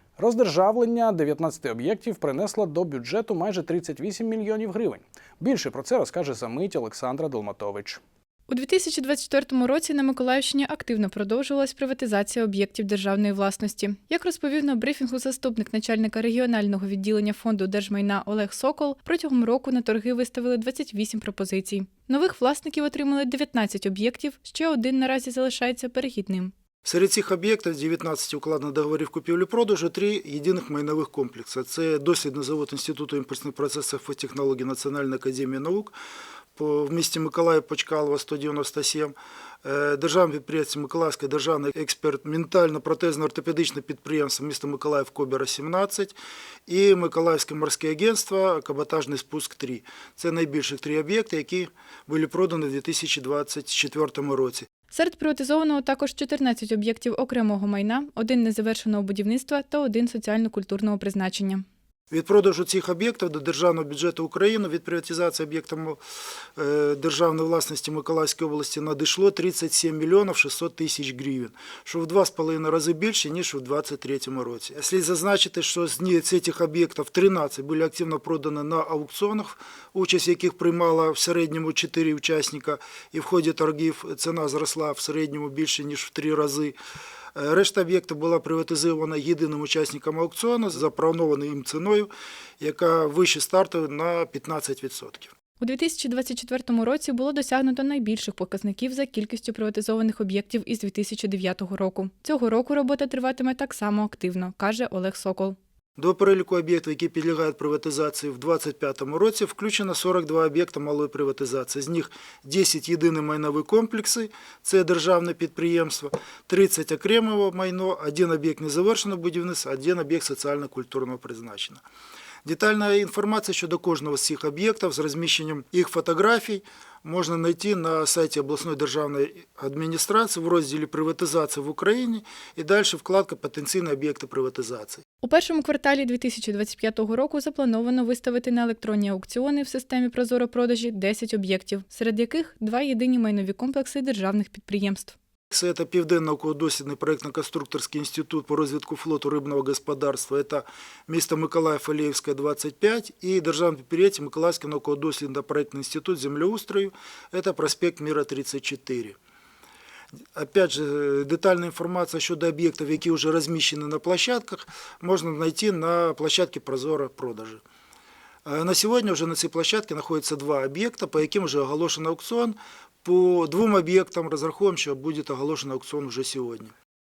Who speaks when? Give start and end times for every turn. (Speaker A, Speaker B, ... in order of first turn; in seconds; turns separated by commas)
Speaker A: 0.2-8.0, Speaker B: 8.5-26.5, Speaker C: 26.8-36.0, Speaker C: 36.6-46.2, Speaker C: 46.7-54.7, Speaker B: 54.9-61.6, Speaker C: 62.1-66.0, Speaker C: 66.6-86.8, Speaker C: 87.4-95.3, Speaker B: 95.6-105.6, Speaker C: 106.0-121.8, Speaker C: 122.4-135.0, Speaker B: 135.2-145.2, Speaker C: 145.5-159.2, Speaker C: 160.3-167.6, Speaker C: 168.4-176.7